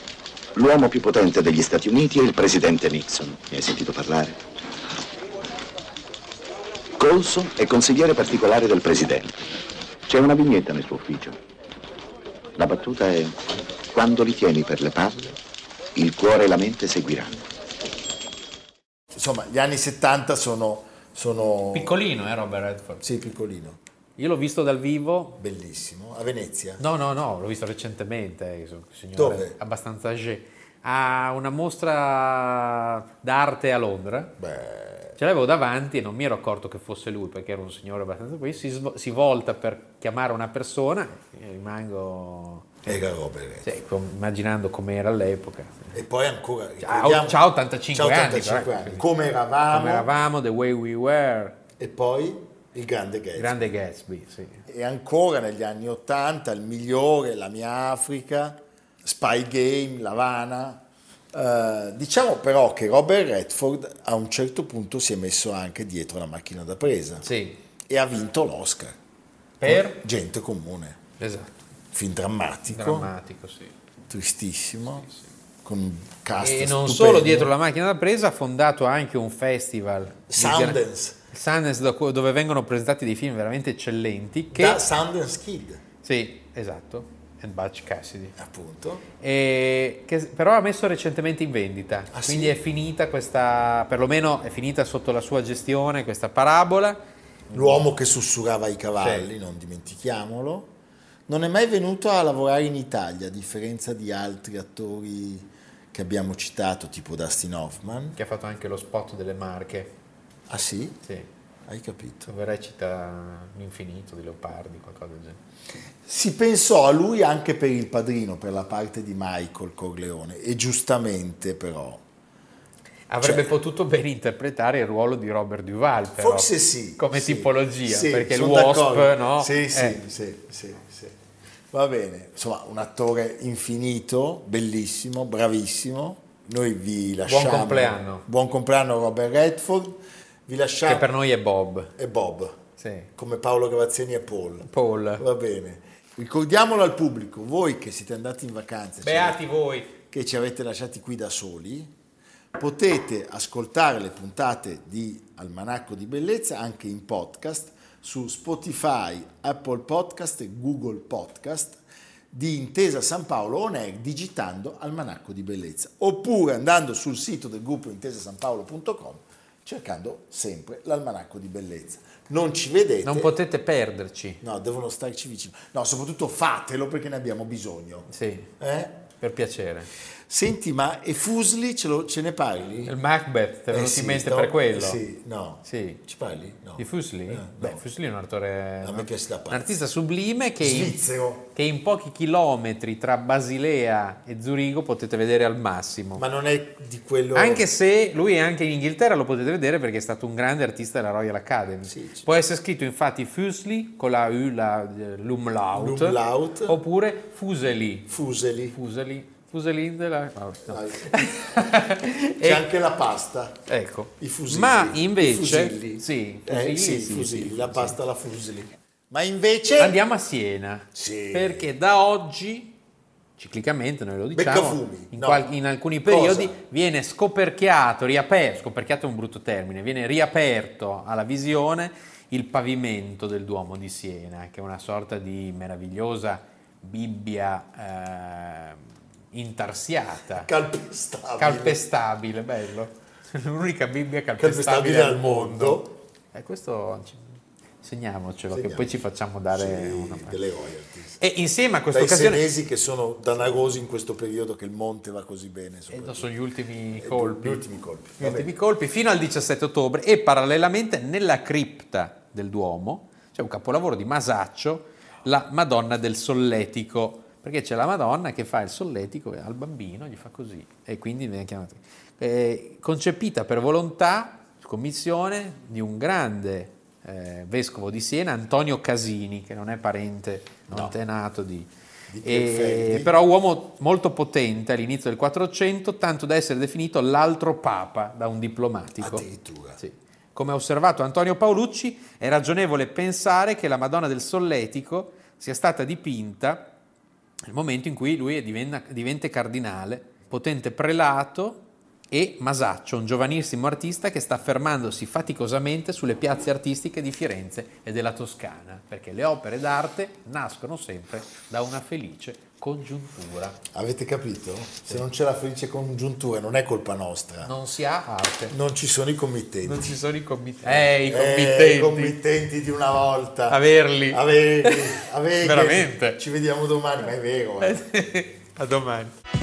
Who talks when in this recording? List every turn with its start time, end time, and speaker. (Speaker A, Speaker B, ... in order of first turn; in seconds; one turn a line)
Speaker A: 0.6-4.4
Speaker A: 7.0-9.5
Speaker A: 10.1-11.4
Speaker A: 12.6-15.4
Speaker A: 16.0-17.4
Speaker B: 19.1-21.9
Speaker C: 21.7-23.0
Speaker B: 23.0-23.8
Speaker C: 24.2-25.4
Speaker B: 25.4-26.8
Speaker C: 26.8-34.4
Speaker B: 29.1-29.6
Speaker B: 34.4-35.2
Speaker C: 35.2-43.0
Speaker B: 42.9-43.7
Speaker C: 43.6-45.9
Speaker B: 45.9-50.1
Speaker C: 46.8-49.0
Speaker C: 49.7-51.6
Speaker B: 51.8-53.8
Speaker C: 53.4-54.6
Speaker B: 54.7-67.3
Speaker C: 67.2-67.6
Speaker B: 67.9-69.0
Speaker C: 69.6-70.0
Speaker B: 69.6-71.0
Speaker C: 71.2-71.6
Speaker B: 71.9-73.1
Speaker C: 72.7-73.7
Speaker B: 74.1-75.1
Speaker B: 75.6-77.5
Speaker C: 76.4-84.8
Speaker B: 80.3-81.2
Speaker B: 84.5-85.8
Speaker C: 86.0-88.4
Speaker B: 88.4-89.1
Speaker C: 89.2-97.0
Speaker B: 92.1-92.6
Speaker B: 97.5-100.7
Speaker C: 99.0-99.3
Speaker B: 101.3-108.2
Speaker C: 108.2-110.0
Speaker B: 110.5-111.0
Speaker B: 111.7-112.3
Speaker C: 112.3-115.4
Speaker B: 116.1-122.0
Speaker C: 123.1-130.0
Speaker B: 123.2-123.5
Speaker B: 126.2-131.2
Speaker B: 131.7-141.1
Speaker C: 137.3-138.3
Speaker C: 140.9-141.9
Speaker B: 142.0-142.6
Speaker C: 142.8-143.1
Speaker B: 143.2-149.4
Speaker C: 144.7-145.2
Speaker C: 149.0-149.9
Speaker B: 150.0-151.9
Speaker B: 152.6-161.8
Speaker B: 162.3-173.4
Speaker C: 173.0-174.4
Speaker B: 174.4-179.0
Speaker C: 178.1-178.5
Speaker C: 179.2-179.9
Speaker B: 180.3-183.0
Speaker C: 182.9-185.0
Speaker B: 183.7-187.8
Speaker C: 185.7-186.0
Speaker C: 186.8-191.0
Speaker B: 188.8-189.7
Speaker B: 190.6-191.5
Speaker C: 191.5-196.2
Speaker B: 196.2-197.7
Speaker C: 197.3-208.1
Speaker B: 201.9-202.3
Speaker B: 205.7-206.8
Speaker B: 208.1-208.8
Speaker C: 208.7-212.7
Speaker B: 210.7-211.7
Speaker B: 212.4-213.6
Speaker C: 213.7-218.0
Speaker B: 214.2-220.0
Speaker C: 219.8-222.8
Speaker B: 220.9-221.7
Speaker C: 223.4-240.5
Speaker B: 224.3-225.5
Speaker B: 226.1-226.6
Speaker B: 240.3-241.8
Speaker C: 241.4-250.4
Speaker B: 244.4-246.0
Speaker B: 248.5-251.2
Speaker C: 251.2-252.5
Speaker B: 251.9-256.3
Speaker C: 255.9-257.6
Speaker B: 256.9-258.5
Speaker C: 258.2-281.7
Speaker B: 280.7-281.0
Speaker B: 282.1-283.2
Speaker C: 282.2-289.3
Speaker B: 289.0-289.8
Speaker C: 289.8-296.7
Speaker C: 297.5-313.6
Speaker B: 313.7-317.6
Speaker C: 317.4-318.6
Speaker B: 318.5-320.0
Speaker C: 319.6-322.2
Speaker B: 320.6-328.1
Speaker C: 323.5-326.2
Speaker C: 327.6-329.1